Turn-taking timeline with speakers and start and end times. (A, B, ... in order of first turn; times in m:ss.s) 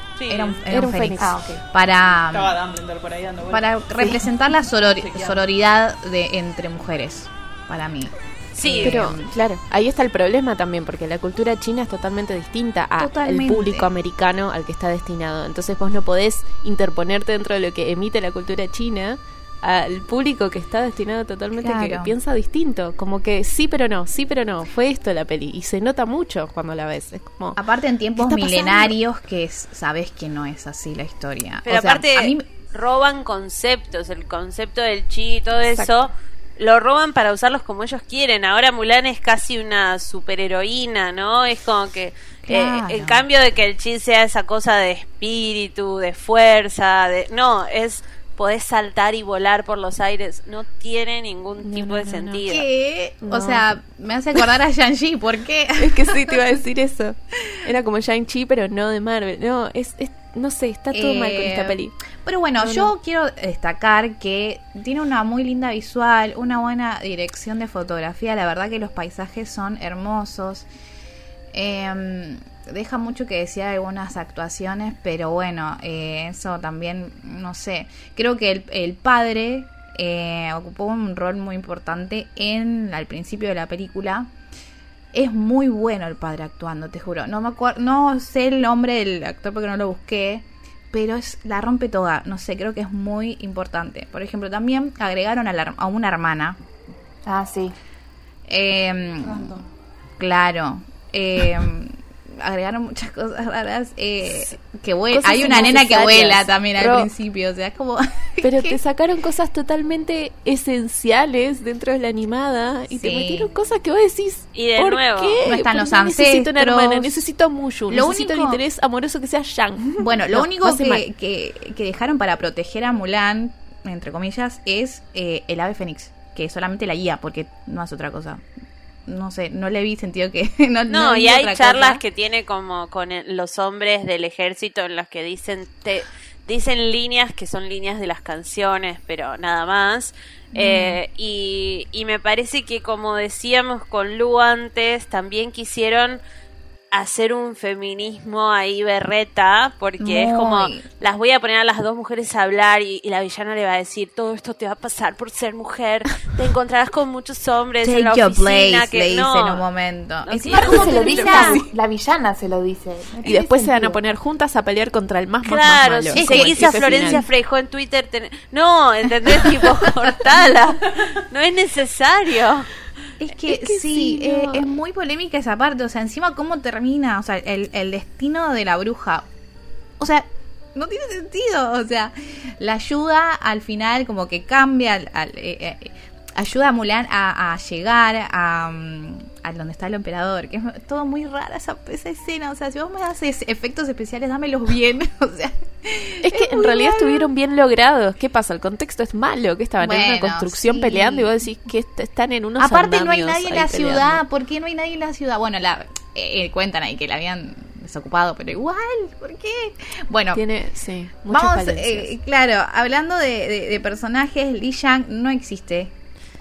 0:00.2-0:00.6 A
0:00.3-0:02.6 B
0:00.7-0:01.3 C
0:01.2-0:01.6 D
0:02.3-0:04.3 E
0:03.5-0:09.3 B
0:05.0-0:05.4 E
0:08.6-0:08.9 A
0:08.7-0:27.6 C
0:13.0-0:13.9 B
0:21.6-0:22.1 B
0:27.6-0:32.5 B
0:28.2-0:28.9 C
0:31.7-0:52.6 A
0:35.7-0:36.0 C
0:42.5-0:43.3 B
0:51.6-0:52.4 C
0:52.4-0:56.4 B
0:53.2-0:53.7 C
0:55.8-1:01.9 C
1:00.9-1:10.7 B
1:02.6-1:02.9 C
1:11.5-1:24.3 B
1:25.1-1:36.6 B
1:37.3-1:37.8 D
1:38.5-1:39.6 B
1:40.2-1:48.8 B
1:45.1-1:47.1 C
1:48.4-2:01.0 C
1:52.9-1:53.5 B
1:54.6-1:55.4 A
1:55.4-1:57.2 B
1:57.9-1:58.6 B
2:00.0-2:08.4 B
2:09.1-2:12.0 B
2:10.9-2:26.2 A
2:20.5-2:21.0 B
2:26.9-2:39.6 A
2:30.0-2:30.8 B
2:37.8-2:41.7 B
2:40.2-2:41.5 A
2:40.5-2:44.0 D
2:40.6-2:41.6 C
2:43.2-2:47.2 C
2:45.4-2:52.7 A
2:46.2-2:47.2 B
2:53.2-2:59.3 B
2:53.4-2:54.7 C
3:00.0-3:17.3 B
3:16.2-3:24.2 C
3:19.8-3:21.3 B
3:22.6-3:30.4 B
3:30.4-3:32.1 C
3:31.3-3:35.9 B